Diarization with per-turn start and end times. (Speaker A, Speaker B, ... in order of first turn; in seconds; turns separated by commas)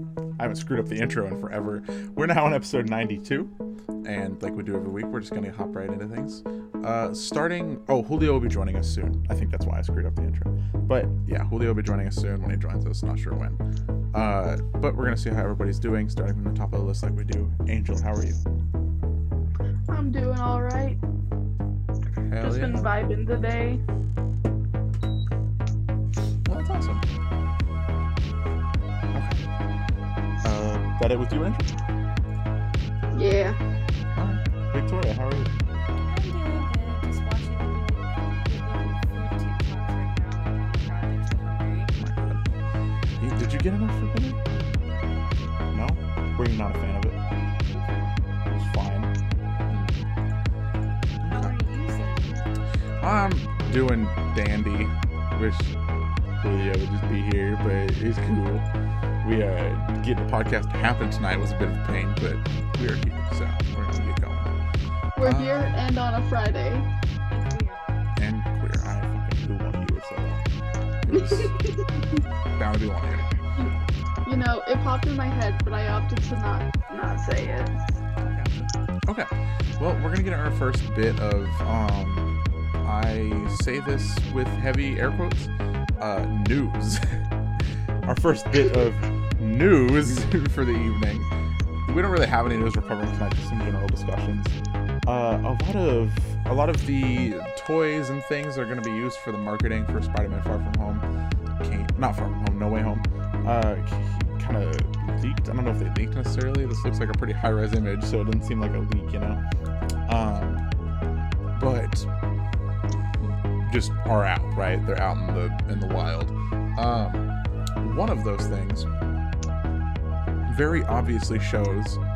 Speaker A: 0.4-3.5, Speaker A: 4.0-13.6, Speaker A: 14.1-18.4, Speaker B: 19.9-21.0, Speaker A: 22.3-22.8, Speaker B: 22.4-23.8, Speaker A: 26.4-27.1, Speaker A: 29.1-29.4, Speaker A: 30.4-31.8, Speaker B: 33.1-33.6, Speaker A: 34.2-35.5, Speaker C: 36.1-41.9, Speaker A: 42.0-42.4, Speaker A: 43.2-44.4, Speaker A: 45.7-47.2, Speaker A: 48.5-49.1, Speaker A: 49.7-50.0, Speaker A: 51.2-51.6, Speaker C: 51.3-52.5, Speaker A: 53.0-55.7, Speaker A: 56.4-58.7, Speaker A: 59.2-64.5, Speaker B: 65.2-66.9, Speaker A: 65.2-65.8, Speaker C: 67.3-67.8, Speaker A: 68.2-70.4, Speaker A: 71.1-71.5, Speaker B: 71.1-71.8, Speaker A: 72.6-73.3, Speaker B: 74.3-77.7, Speaker A: 78.2-82.3, Speaker A: 82.8-87.2, Speaker A: 88.1-91.3, Speaker A: 91.8-94.5, Speaker A: 95.1-101.0, Speaker A: 101.6-109.4, Speaker A: 110.1-110.6, Speaker A: 111.5-112.1, Speaker A: 113.6-117.3, Speaker A: 117.8-118.9, Speaker A: 120.5-122.0